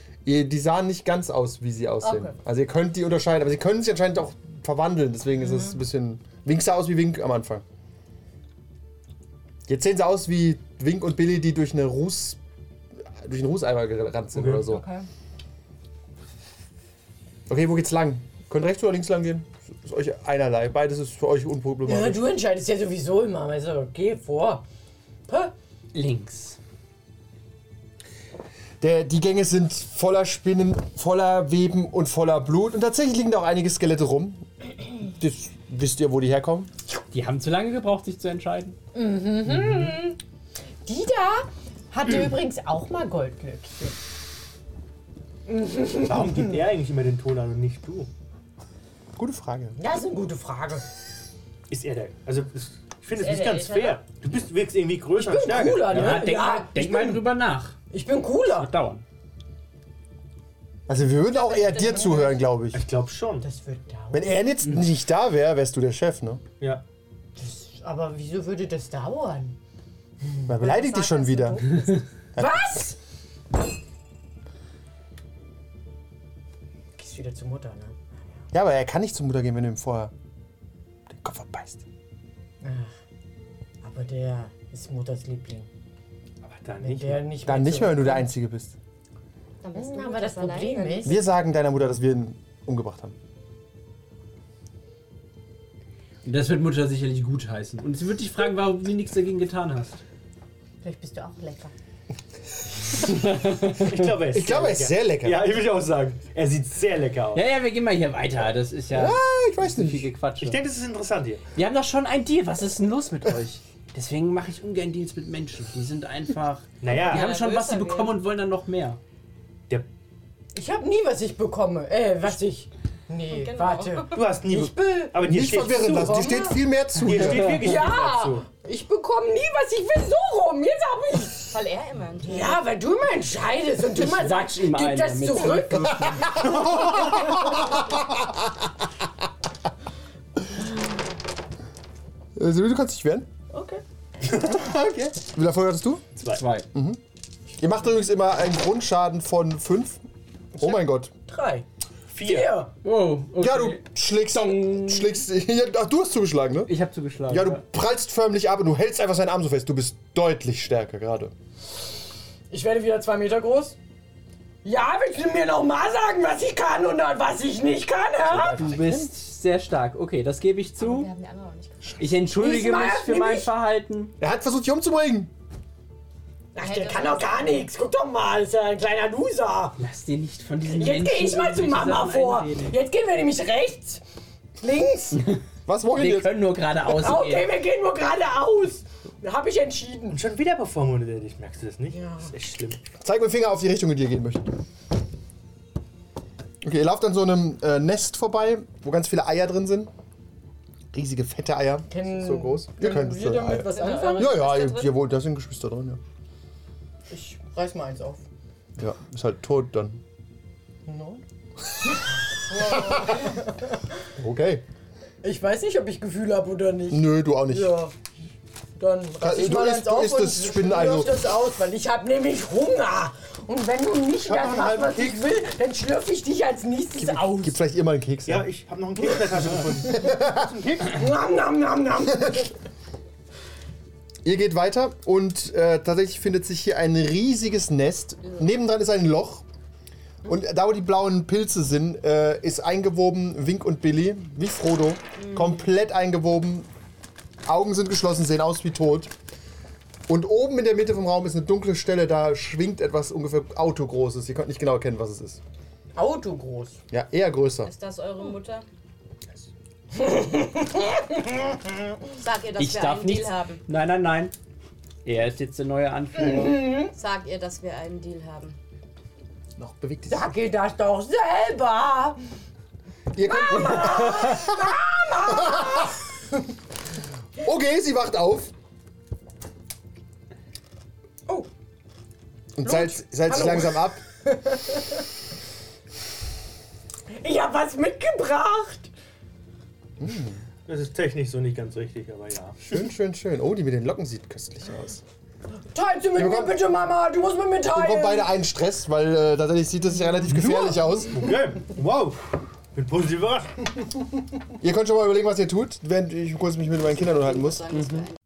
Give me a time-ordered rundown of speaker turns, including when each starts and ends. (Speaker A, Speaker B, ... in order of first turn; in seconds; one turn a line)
Speaker A: 0.2-7.6
Speaker B: 2.0-2.4
Speaker B: 5.4-5.8
Speaker A: 9.7-12.4
Speaker A: 13.0-14.8
Speaker B: 14.5-15.1
Speaker A: 17.5-22.3
Speaker C: 21.9-24.6
Speaker C: 25.3-25.5
Speaker D: 25.9-26.6
Speaker A: 28.8-36.7
Speaker D: 36.9-38.8
Speaker C: 38.9-40.2
Speaker C: 40.9-44.0
Speaker C: 45.5-46.6
Speaker E: 46.0-48.1
Speaker A: 49.2-49.8
Speaker C: 49.8-50.9
Speaker E: 51.7-56.2
Speaker B: 53.1-54.0
Speaker C: 55.2-57.3
Speaker D: 55.9-57.8
Speaker C: 57.9-58.7
Speaker D: 58.5-59.0
Speaker A: 60.9-62.8
Speaker B: 61.3-62.4
Speaker E: 62.7-63.5
Speaker C: 63.4-64.4
Speaker A: 64.1-66.4
Speaker C: 67.4-69.6
Speaker C: 70.2-73.0
Speaker A: 70.5-71.8
Speaker A: 72.4-72.6
Speaker C: 77.0-78.0
Speaker A: 78.5-80.1
Speaker A: 81.1-81.8
Speaker C: 82.6-82.9
Speaker C: 83.8-85.7
Speaker E: 86.4-87.3
Speaker C: 86.8-88.3
Speaker A: 87.5-88.8
Speaker B: 89.6-91.2
Speaker C: 89.8-91.2
Speaker A: 91.0-93.2
Speaker D: 96.2-100.0
Speaker C: 100.8-101.7
Speaker D: 103.0-104.1
Speaker E: 103.7-107.5
Speaker A: 104.3-105.5
Speaker D: 107.3-110.6
Speaker A: 108.9-110.1
Speaker E: 110.4-111.4
Speaker D: 111.6-119.0
Speaker E: 116.8-117.3
Speaker B: 116.9-118.2
Speaker C: 120.5-126.6
Speaker B: 123.3-124.3
Speaker E: 124.1-128.5
Speaker A: 125.2-127.7
Speaker C: 127.1-131.5
Speaker B: 131.5-132.7
Speaker C: 132.2-136.8
Speaker D: 133.9-137.2
Speaker A: 136.3-138.4
Speaker A: 142.4-143.3
Speaker C: 143.5-143.8
Speaker A: 144.7-146.0
Speaker E: 146.2-146.4
Speaker D: 146.2-146.7
Speaker A: 146.7-147.0
Speaker A: 147.6-150.0
Speaker A: 150.6-151.1
Speaker C: 150.6-151.7
Speaker E: 152.1-152.6
Speaker C: 152.2-152.7
Speaker D: 152.8-155.2
Speaker A: 153.4-156.7
Speaker D: 156.7-157.6
Speaker A: 157.3-161.3
Speaker C: 162.5-163.8
Speaker C: 164.6-168.6
Speaker A: 168.2-169.1
Speaker D: 168.6-171.1
Speaker B: 170.8-172.1
Speaker D: 172.0-174.1
Speaker C: 172.3-173.5
Speaker A: 174.2-175.3
Speaker C: 176.6-179.8
Speaker B: 176.6-177.7
Speaker D: 179.8-182.8
Speaker C: 180.7-184.0
Speaker C: 184.6-185.2
Speaker D: 185.2-187.5
Speaker A: 185.7-186.4
Speaker C: 186.8-190.2
Speaker E: 190.1-192.8
Speaker C: 191.9-192.3
Speaker A: 193.0-194.5
Speaker A: 196.6-199.9
Speaker A: 200.9-206.0
Speaker C: 201.9-204.5
Speaker B: 203.5-204.9
Speaker C: 207.1-208.2
Speaker A: 208.8-210.0
Speaker C: 210.9-211.2
Speaker C: 212.4-213.8
Speaker A: 214.2-214.6
Speaker C: 215.2-217.9
Speaker A: 216.9-217.8
Speaker C: 218.8-227.6
Speaker A: 219.2-221.2
Speaker E: 224.2-225.4
Speaker A: 227.0-228.5
Speaker E: 228.3-230.8
Speaker C: 229.2-230.2
Speaker A: 230.0-230.5
Speaker C: 230.8-232.5
Speaker A: 232.2-232.4
Speaker A: 234.2-239.4
Speaker A: 240.2-246.7
Speaker B: 245.2-245.7
Speaker A: 247.4-249.1
Speaker A: 250.1-255.4
Speaker C: 255.9-256.8
Speaker A: 256.9-257.7
Speaker B: 257.6-258.7
Speaker C: 259.9-261.7
Speaker B: 262.2-263.6
Speaker D: 262.6-264.3
Speaker D: 265.0-266.8
Speaker C: 266.2-266.9
Speaker B: 266.9-268.6
Speaker A: 269.6-270.3
Speaker C: 270.1-272.2
Speaker A: 273.1-275.9
Speaker C: 273.2-276.0
Speaker A: 277.4-278.5
Speaker A: 282.6-284.0
Speaker C: 282.6-285.0
Speaker C: 287.1-288.9
Speaker A: 290.0-290.4
Speaker E: 290.7-292.7
Speaker A: 292.7-295.0
Speaker C: 295.7-298.3
Speaker A: 296.1-296.6
Speaker A: 297.7-301.2
Speaker E: 301.1-303.5
Speaker A: 304.6-307.8
Speaker B: 307.1-308.1